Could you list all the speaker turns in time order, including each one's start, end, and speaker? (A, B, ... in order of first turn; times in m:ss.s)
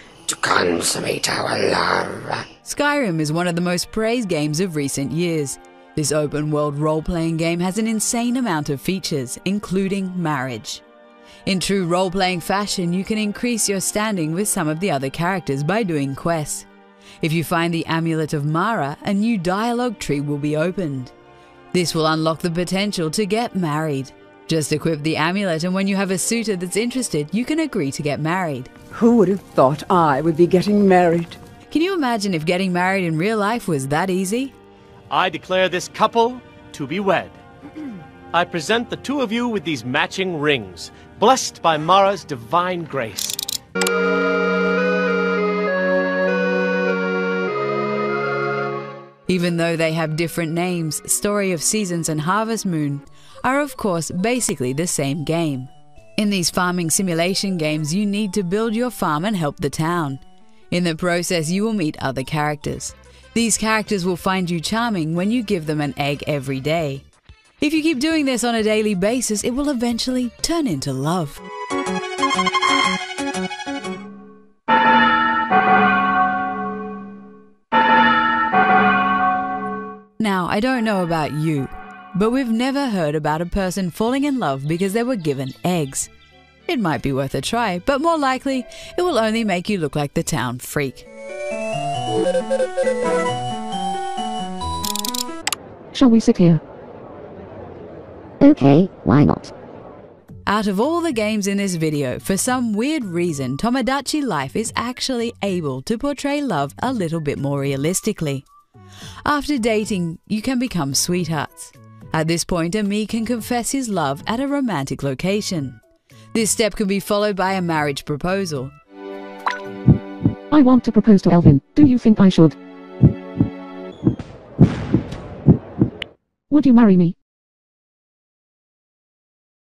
0:00.3-0:02.4 A
0:02.6-0:10.8 B
0:11.5-0:16.7 B
0:17.2-0:21.1 B
0:21.7-0:28.7 B
0:28.9-0:31.4 C
0:31.7-0:34.5 B
0:35.1-0:37.4 D
0:38.3-0:43.4 D
0:49.3-1:07.0 B
1:07.6-1:11.4 B
1:20.2-1:26.1 B
1:26.7-1:31.1 B
1:35.9-1:36.6 E
1:38.4-1:39.5 E
1:40.5-1:48.4 B
1:49.2-1:55.8 B
1:56.3-1:58.7 B
2:00.5-2:02.6 E
2:06.5-2:07.1 E